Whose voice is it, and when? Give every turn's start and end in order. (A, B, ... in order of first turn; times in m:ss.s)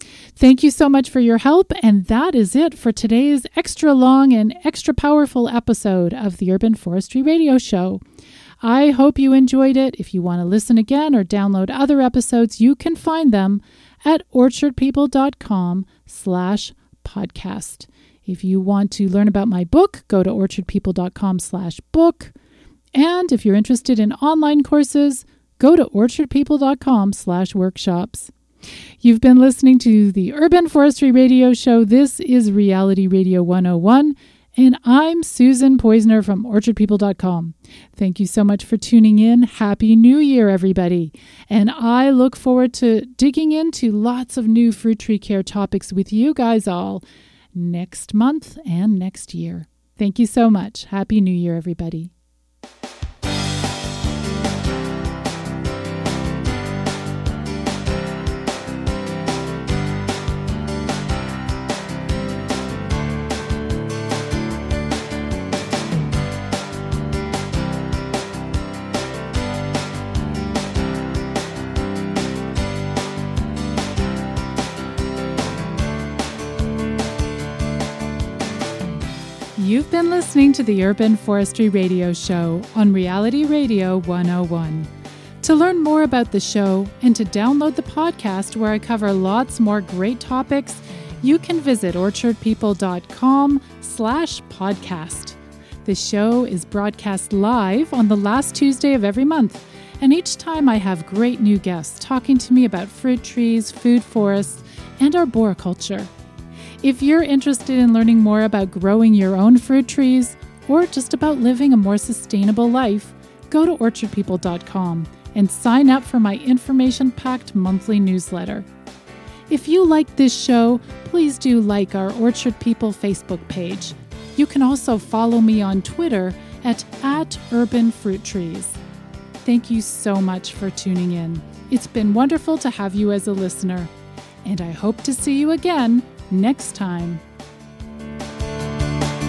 0:00.4-0:08.0 A
0:08.6-0:22.3 A
0:22.9-0:28.3 A
0:29.0-0:52.1 A
1:19.6-1:24.9 A
1:25.4-1:46.1 A
1:46.8-1:58.7 A
1:59.5-2:08.8 A
2:09.4-2:13.9 A
2:14.4-2:17.2 A